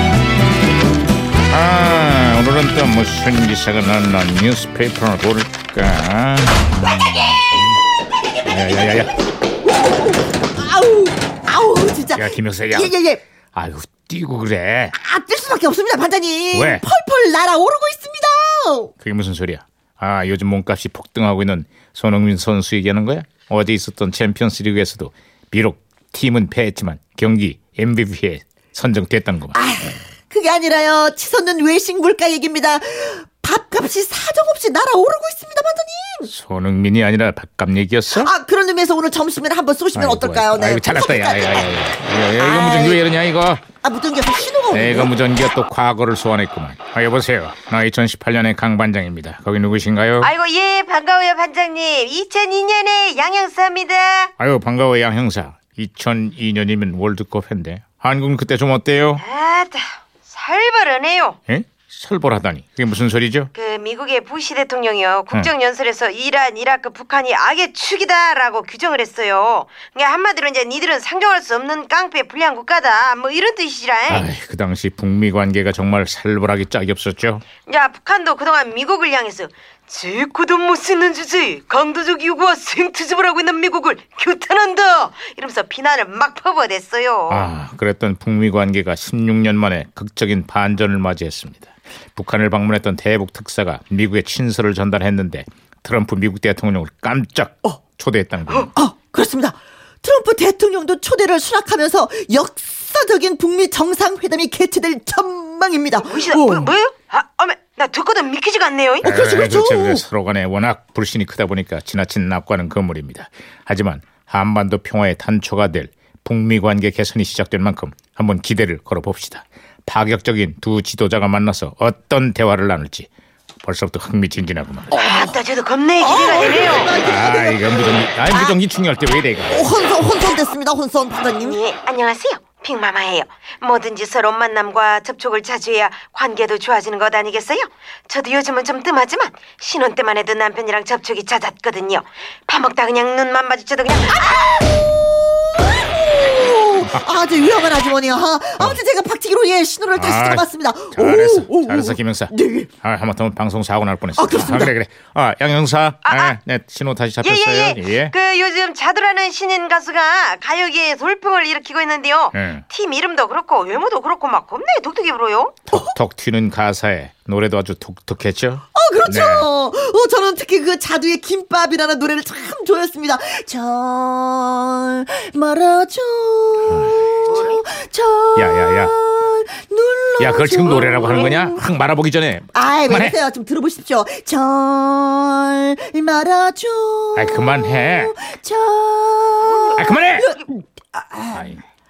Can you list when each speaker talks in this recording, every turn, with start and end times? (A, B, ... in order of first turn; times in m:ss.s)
0:01.5-0:07.6 A
0:08.4-0:09.1 A
0:09.8-0:13.2 B
0:12.1-0:12.9 A
0:13.5-0:14.9 A
0:15.0-0:18.9 B
0:16.5-0:16.8 A
0:19.0-0:29.6 A
0:29.5-0:36.3 B
0:36.3-0:38.3 A
0:38.1-0:41.6 B
0:39.9-0:43.6 A
0:42.4-0:43.0 B
0:43.8-0:45.1 B
0:44.7-0:50.3 A
0:50.2-0:54.3 C
0:54.4-0:59.2 A
0:59.2-1:01.4 C
1:01.5-1:03.5 A
1:03.5-1:14.3 C
1:14.1-1:17.4 A
1:17.6-1:27.5 C
1:27.3-1:38.7 A
1:38.7-1:46.7 B
1:46.0-1:49.2 C
1:49.0-2:03.1 A
1:49.0-1:50.0 B
2:03.6-2:04.9 A
2:04.9-2:05.4 B
2:04.9-2:06.9 C
2:06.0-2:08.6 B
2:07.0-2:09.8 A
2:09.5-2:11.6 B
2:11.4-2:24.4 C
2:25.8-2:32.7 B
2:30.0-2:32.3 A
2:32.8-2:38.1 A
2:34.2-2:34.7 B
2:36.0-2:36.4 C
2:37.2-2:45.5 C
2:42.3-2:42.6 A
2:45.7-2:49.5 A
2:48.7-3:01.6 B
2:56.7-2:57.0 A
2:57.3-2:57.6 C
2:58.4-2:59.0 A
3:00.2-3:03.2 A
3:02.5-3:11.6 B
3:07.2-3:08.1 A
3:09.8-3:10.3 A
3:11.3-3:11.6 A